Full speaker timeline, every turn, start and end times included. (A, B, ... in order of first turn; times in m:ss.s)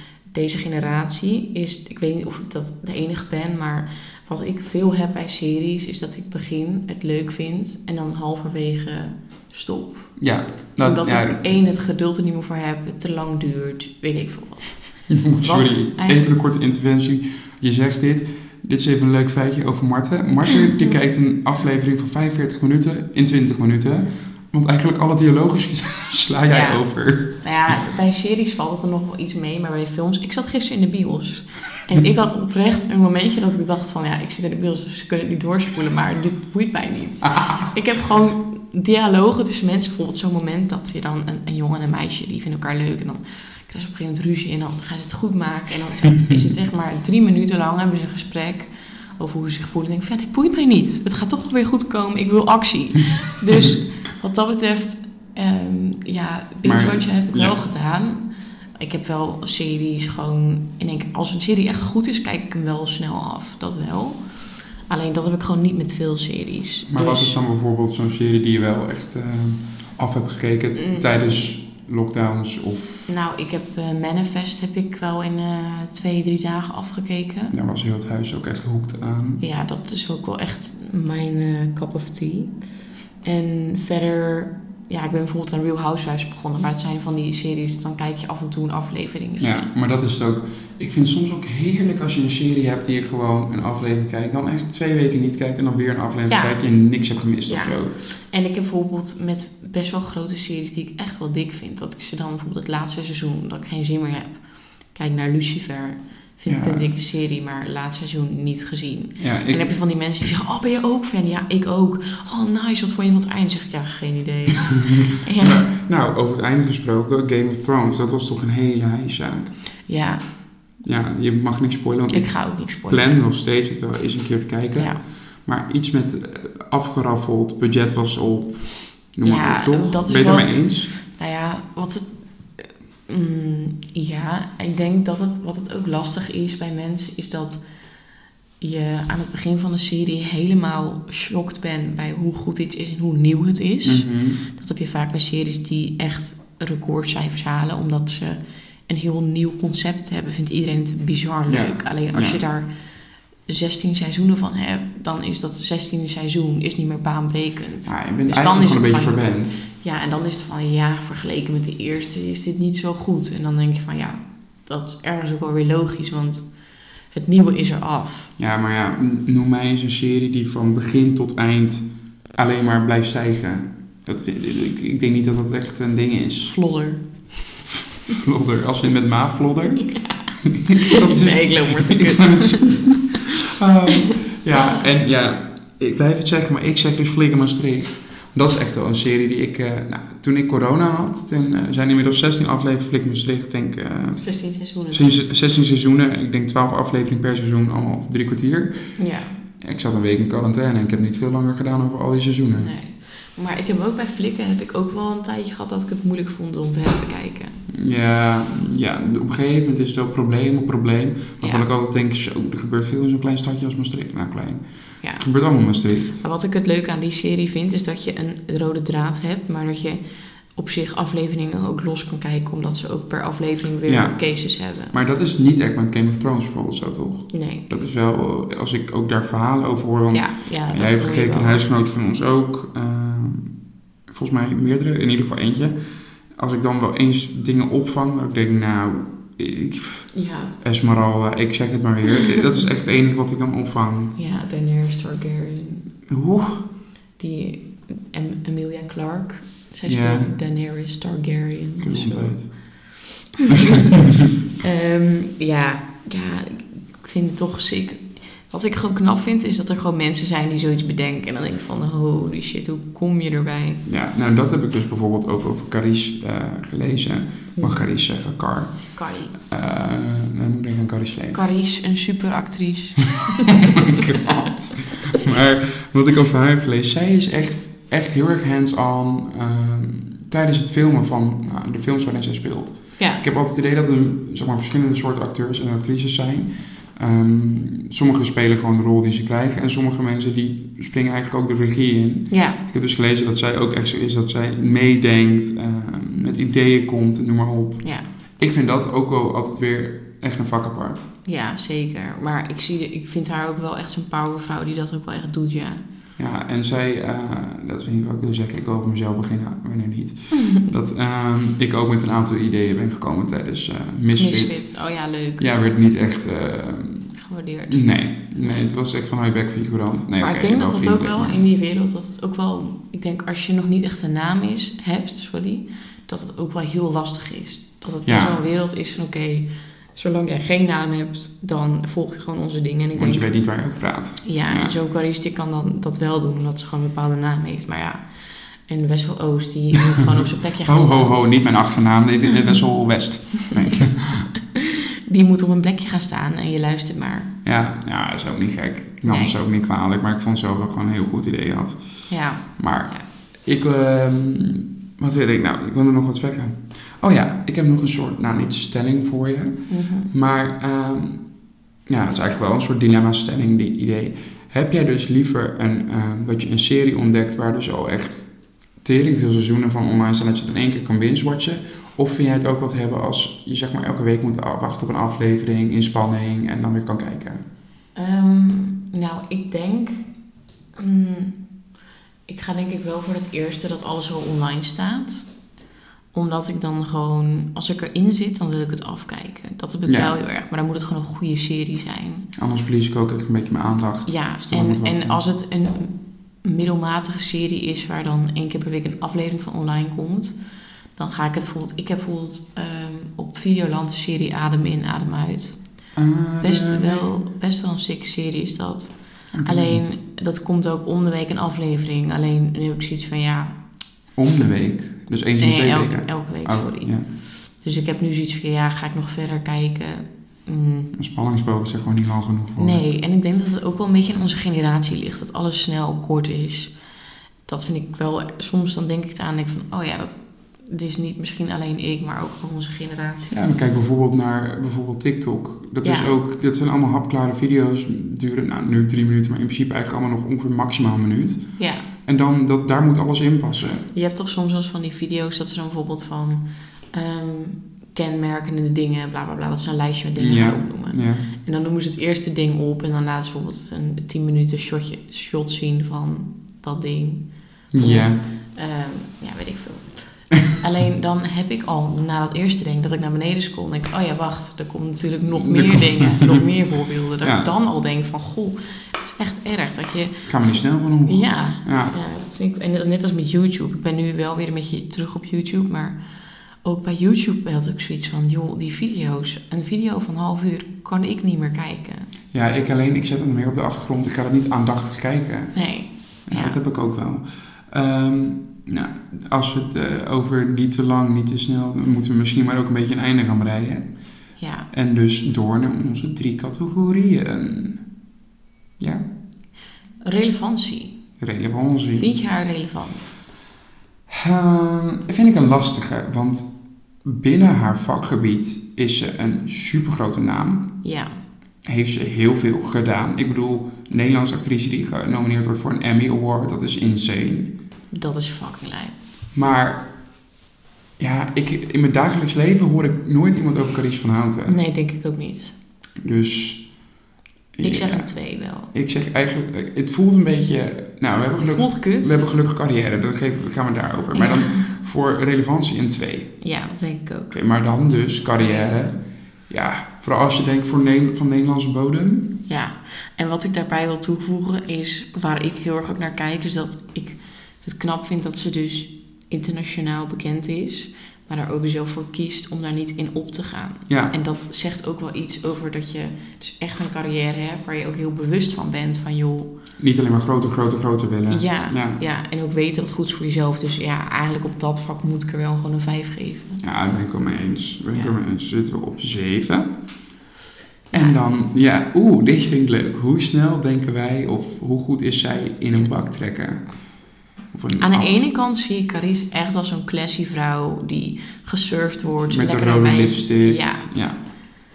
0:00.3-0:10.2 A
0:10.2-0:11.5 B
0:10.8-0:16.2 A
0:15.1-0:27.4 B
0:26.5-1:07.4 A
0:56.6-0:57.6 B
1:06.9-1:13.1 B
1:10.7-1:11.4 A
1:13.1-1:17.5 A
1:17.5-1:19.4 B
1:19.4-1:22.6 A
1:23.2-1:29.7 A
1:29.4-1:37.9 B
1:36.3-1:36.7 A
1:37.4-1:55.6 A
1:46.5-1:46.8 B
1:49.2-1:49.7 B
1:55.4-1:59.5 B
1:59.8-2:00.2 A
2:00.8-2:10.9 B
2:02.1-2:03.1 A
2:04.8-2:05.0 A
2:09.2-2:17.6 A
2:18.6-2:32.7 A
2:23.8-2:24.4 B
2:31.5-2:32.4 B
2:33.4-2:46.5 A
2:37.8-2:39.6 B
2:47.1-2:48.3 A
2:48.4-2:56.5 B
2:56.5-2:57.3 A
2:58.1-3:14.2 B
2:59.9-3:03.2 A
3:04.5-3:04.9 A
3:14.2-3:15.2 A
3:14.9-3:18.9 B
3:19.0-3:19.3 A
3:19.6-3:22.7 B
3:22.5-3:27.6 A
3:27.7-3:34.6 B
3:31.4-3:31.6 A
3:35.0-3:35.3 A
3:35.2-3:36.2 B
3:36.2-3:40.0 A
3:40.5-3:44.9 A
3:43.8-3:55.8 B
3:47.3-3:47.6 A
3:50.1-3:51.6 A
3:56.3-4:04.1 B
4:00.1-4:00.6 A
4:04.1-4:05.9 A
4:06.1-4:06.6 B
4:07.2-4:23.8 A
4:09.8-4:10.3 B
4:11.8-4:12.5 B
4:23.8-4:31.4 B
4:28.9-4:29.4 A
4:31.3-4:34.2 A
4:33.9-5:01.1 B
4:43.0-4:43.2 A
4:52.3-4:52.6 A
4:57.8-4:58.1 A
5:01.2-5:05.8 A
5:06.2-5:14.8 B
5:10.4-5:10.6 A
5:14.1-5:15.5 A
5:15.4-5:21.4 B
5:17.2-5:18.6 A
5:20.2-5:33.3 A
5:28.0-5:28.4 B
5:32.9-5:34.7 B
5:34.2-5:41.1 A
5:40.6-5:44.3 B
5:44.5-5:47.3 A
5:47.4-6:17.4 B
5:49.0-5:49.3 A
5:52.1-5:53.0 A
5:59.7-6:00.1 A
6:17.9-6:20.2 A
6:20.7-6:21.6 A
6:22.3-6:25.3 A
6:26.1-6:32.3 A
6:29.8-6:30.1 B
6:32.4-6:35.2 B
6:34.0-6:40.4 A
6:40.9-6:53.5 A
6:45.9-6:47.1 B
6:49.3-6:49.8 B
6:54.2-6:57.1 B
6:55.4-7:00.9 A
7:00.9-7:02.8 B
7:02.6-7:06.8 A
7:07.4-7:13.3 A
7:13.3-7:23.8 B
7:15.8-7:16.2 A
7:21.6-7:21.9 A
7:23.9-7:56.0 A
7:30.2-7:31.2 B
7:37.7-7:38.2 B
7:45.4-7:46.4 B
7:47.2-7:47.5 B
7:50.2-7:52.0 B
7:56.6-8:02.1 A
8:02.3-8:17.9 B
8:05.5-8:06.6 A
8:14.4-8:14.7 A
8:18.8-8:19.1 B
8:20.0-8:21.0 A
8:21.2-8:22.1 B
8:21.9-8:23.2 A
8:24.1-8:30.7 B
8:30.8-8:31.1 A
8:31.6-8:37.5 B
8:37.9-8:39.0 A
8:39.3-8:39.9 B
8:41.0-8:44.6 B
8:44.4-8:45.6 A
8:46.0-8:46.8 B
8:47.5-8:56.4 B
8:47.6-8:48.7 A
8:51.4-8:52.3 A
8:54.1-8:54.6 A
8:56.4-8:57.4 A
8:57.3-9:02.3 B
8:58.4-8:58.7 A
9:02.5-9:19.5 A
9:13.9-9:14.1 B
9:19.8-9:22.0 B
9:21.3-9:26.6 A
9:26.6-9:29.7 B
9:30.9-9:38.3 B
9:37.8-9:43.9 A
9:42.3-9:44.2 B